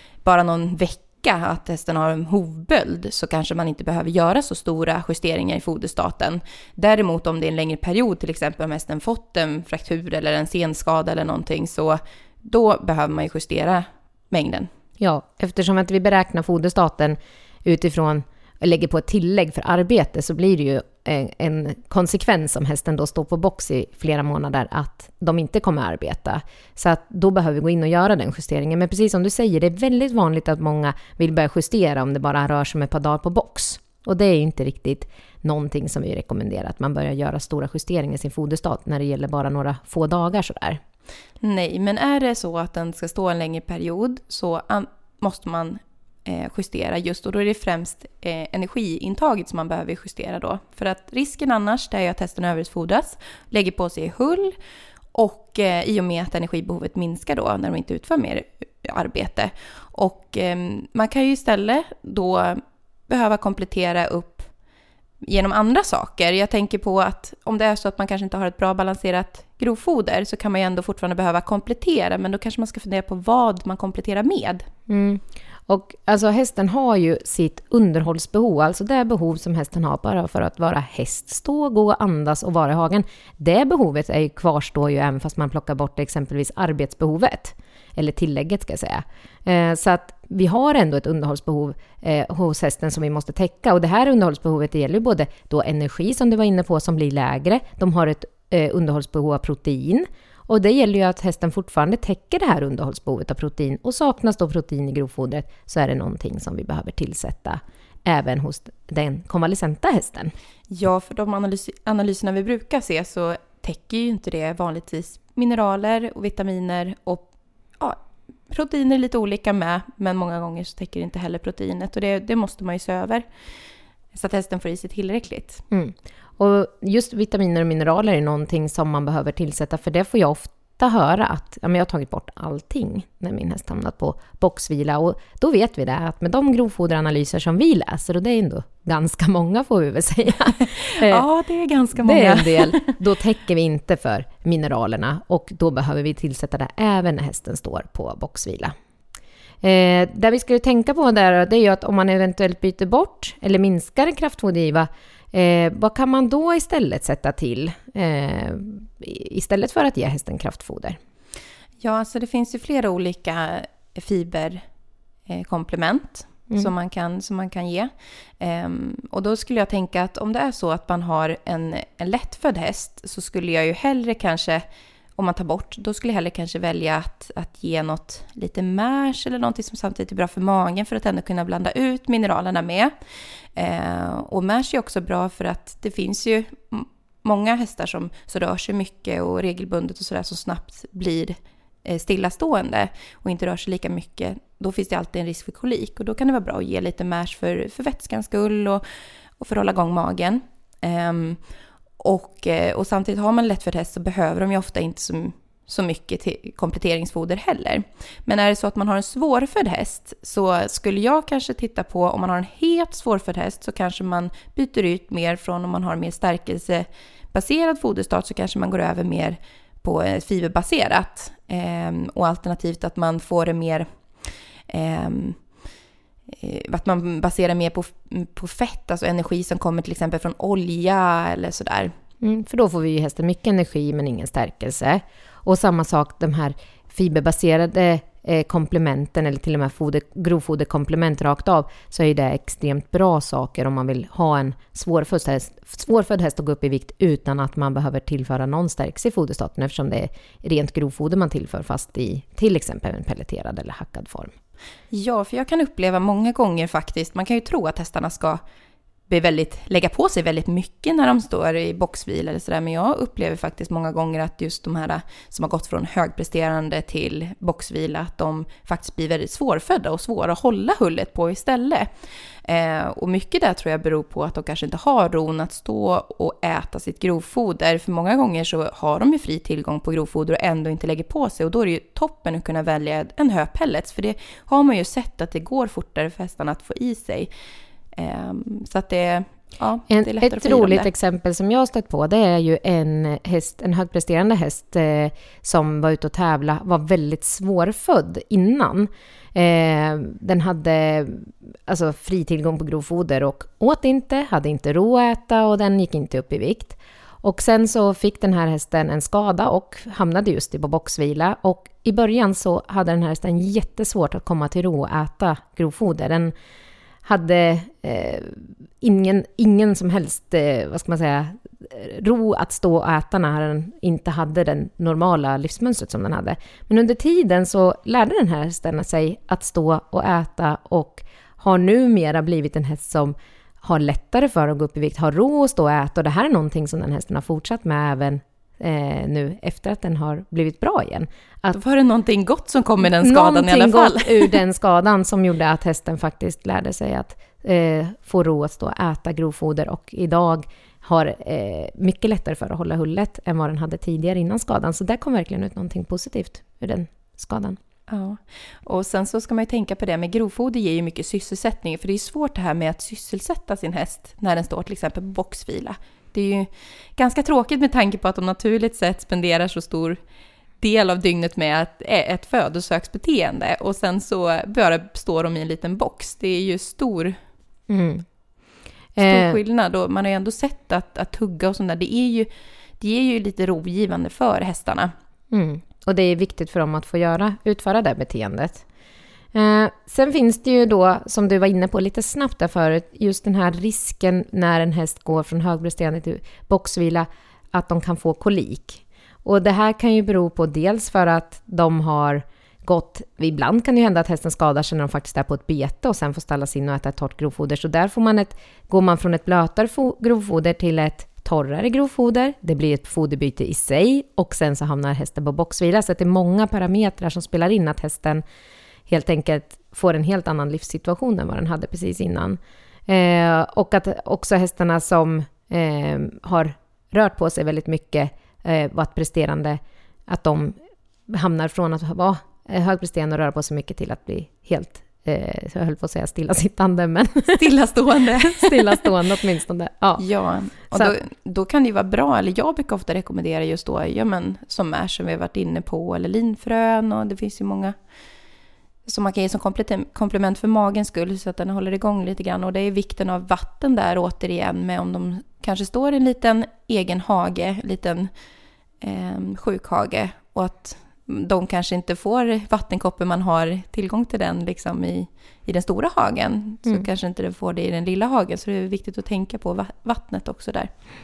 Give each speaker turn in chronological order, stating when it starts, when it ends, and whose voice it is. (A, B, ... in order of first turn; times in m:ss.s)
0:00.2-0:14.7 A
0:15.0-0:40.8 B
0:41.4-0:54.5 A
0:55.1-1:04.5 A
1:05.2-1:14.6 A
1:14.9-1:50.3 B
1:50.7-1:57.3 A
1:57.8-2:03.3 A
2:04.1-2:05.6 A
2:05.7-2:21.2 B
2:20.6-2:23.0 A
2:22.0-2:28.7 B
2:29.6-2:41.0 B
2:41.8-2:44.6 A
2:45.3-2:54.6 A
2:55.2-3:02.9 A
3:03.6-3:18.8 A
3:19.4-3:21.4 A
3:22.0-3:43.9 A
3:44.7-3:45.4 A
3:46.3-3:51.9 A
3:52.2-4:14.3 B
4:14.9-4:18.4 A
4:19.1-4:31.9 A
4:32.4-4:47.3 A
4:47.9-4:50.9 A
4:49.9-5:16.3 B
5:17.0-5:41.6 B
5:41.5-5:44.4 A
5:42.8-5:57.6 B
5:57.9-6:10.0 A
6:10.6-6:17.1 A
6:17.7-6:18.0 B
6:19.0-6:19.4 B
6:19.0-6:22.3 A
6:22.8-6:24.9 A
6:25.3-6:28.6 B
6:29.3-6:58.2 B
6:58.9-7:10.6 B
7:11.1-7:17.5 B
7:17.3-7:19.0 A
7:18.2-7:20.0 B
7:20.0-7:27.7 A
7:28.8-7:38.1 A
7:38.8-7:50.7 A